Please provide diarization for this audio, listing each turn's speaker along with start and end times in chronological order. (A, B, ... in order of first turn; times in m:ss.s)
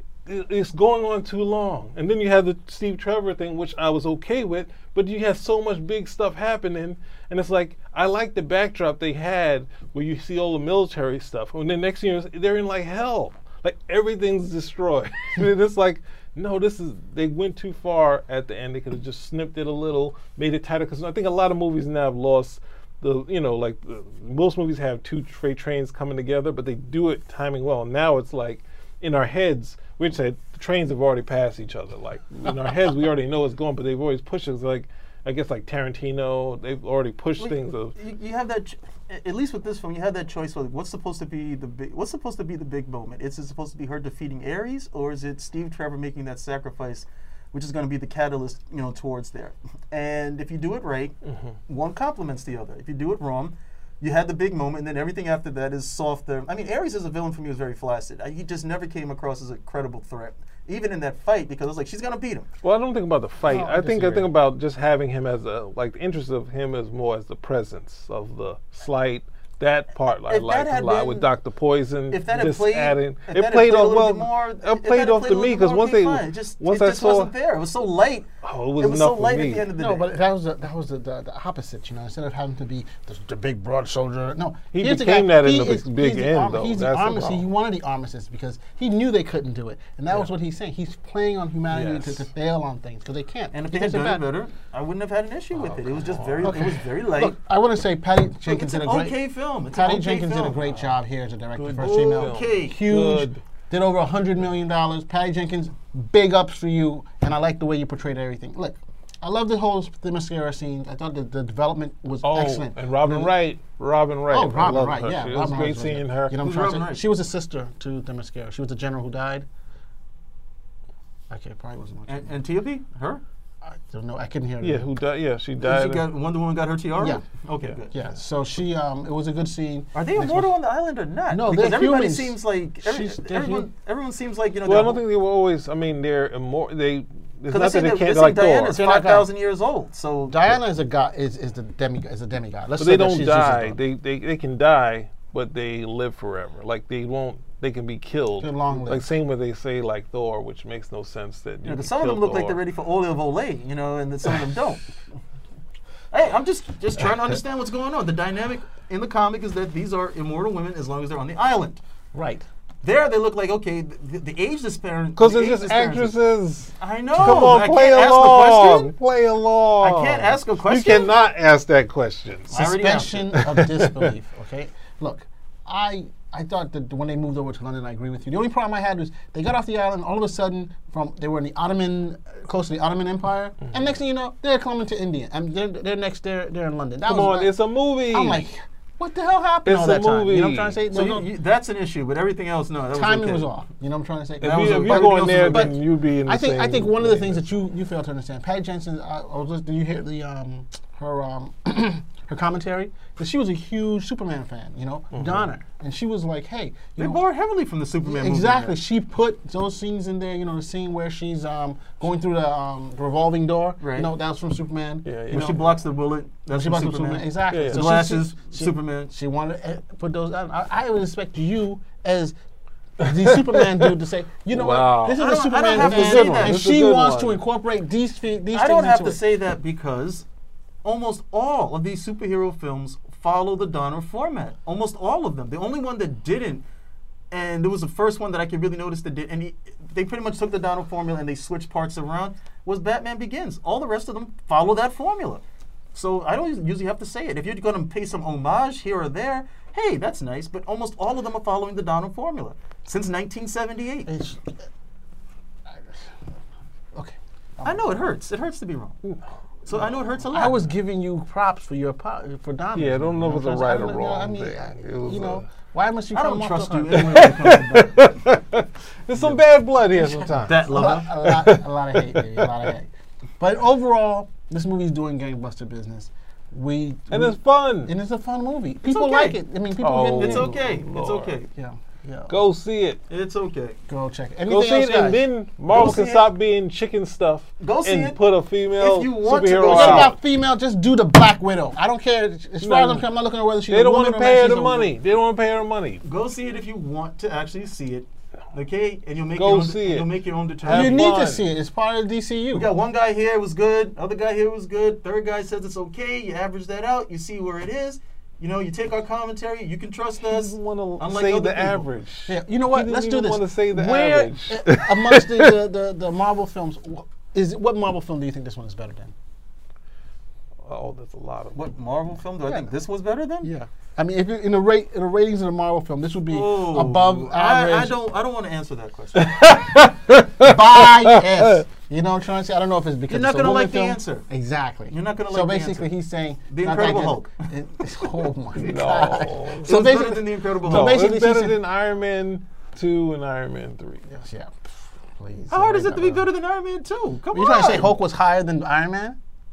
0:00.3-0:38.0 A
0:37.4-0:51.2 B
0:51.3-0:51.5 A
0:51.7-1:02.5 B
1:02.6-1:17.3 A
1:03.4-1:04.3 C
1:10.3-1:11.3 B
1:12.1-1:18.3 B
1:18.4-1:19.7 A
1:18.8-1:20.1 B
1:19.8-1:34.2 C
1:24.7-1:27.5 A
1:31.7-1:32.3 A
1:33.5-1:37.4 B
1:35.5-1:36.7 A
1:36.4-1:39.2 C
1:38.4-1:40.7 B
1:39.7-1:53.3 C
1:41.5-1:43.4 A
1:42.1-1:42.8 B
1:52.2-1:56.4 A
1:54.3-1:59.5 C
1:56.4-1:57.1 B
2:01.3-2:02.4 C
2:02.1-2:03.2 B
2:03.6-2:04.9 C
2:04.6-2:06.1 A
2:05.6-2:07.9 B
2:07.0-2:07.2 C
2:07.9-2:10.6 C
2:09.9-2:15.0 B
2:11.3-2:13.7 C
2:14.6-2:18.8 A
2:17.5-2:20.5 B
2:18.7-2:19.3 C
2:20.3-2:23.8 C
2:22.8-2:32.6 A
2:28.4-2:29.1 C
2:31.6-2:34.8 B
2:36.1-2:41.8 B
2:42.1-2:42.4 C
2:42.8-2:46.2 B
2:45.2-2:52.8 A
2:46.8-2:48.9 B
2:49.8-2:51.1 B
2:52.5-3:07.6 C
2:52.5-2:53.3 B
2:53.3-2:54.1 A
3:07.0-3:08.5 A
3:08.1-3:11.3 C
3:09.6-3:10.8 A
3:10.9-3:13.5 B
3:12.9-3:27.2 C
3:14.4-3:17.5 A
3:14.4-3:15.8 B
3:25.1-3:25.5 A
3:27.0-3:28.8 B
3:28.0-3:35.6 C
3:33.8-3:34.1 B
3:35.0-3:35.6 A
3:35.3-3:39.1 B
3:36.5-3:42.4 C
3:37.5-3:37.8 A
3:43.0-3:49.2 C
3:43.0-3:43.8 A
3:44.5-3:47.4 A
3:45.2-3:46.6 B
3:48.5-3:50.3 B
3:50.8-3:56.6 B
3:57.3-4:05.4 B
4:05.9-4:14.1 B
4:14.1-4:14.6 C
4:15.7-4:16.0 C
4:17.0-4:18.1 C
4:17.6-4:19.0 B
4:19.6-4:20.6 B
4:20.3-4:28.0 C
4:22.8-4:25.5 A
4:26.1-4:28.0 B
4:26.9-4:32.7 A
4:30.4-4:31.1 B
4:30.7-4:32.9 C
4:33.4-4:40.5 C
4:37.1-4:37.9 A
4:38.9-4:39.4 B
4:39.8-4:41.4 A
4:40.2-4:41.5 B
4:41.6-4:42.4 C
4:42.3-4:43.0 A
4:43.1-4:43.8 B
4:43.9-4:45.2 C
4:44.5-4:50.2 A
4:45.7-4:46.3 B
4:47.6-4:48.2 B
4:48.8-4:50.1 B
4:49.6-4:54.5 C
4:52.6-4:53.1 A
4:53.7-4:56.0 A
4:54.4-4:54.9 B
4:56.0-5:01.0 B
4:59.4-5:00.1 A
5:00.6-5:01.4 A
5:00.7-5:02.7 C
5:02.5-5:11.9 B
5:10.3-5:15.5 A
5:12.3-5:19.1 C
5:20.6-5:21.6 A
5:21.5-5:23.5 B
5:23.4-5:28.0 C
5:26.3-5:29.3 B
5:29.2-5:31.6 A
5:30.4-5:41.6 C
5:33.1-5:34.3 B
5:34.9-5:35.9 B
5:36.5-5:37.4 B
5:38.6-5:40.0 A
5:39.6-5:41.0 B
5:40.6-5:44.0 A
5:44.1-5:44.6 C
5:45.2-5:46.3 C
5:45.5-5:47.9 B
5:47.3-5:49.2 C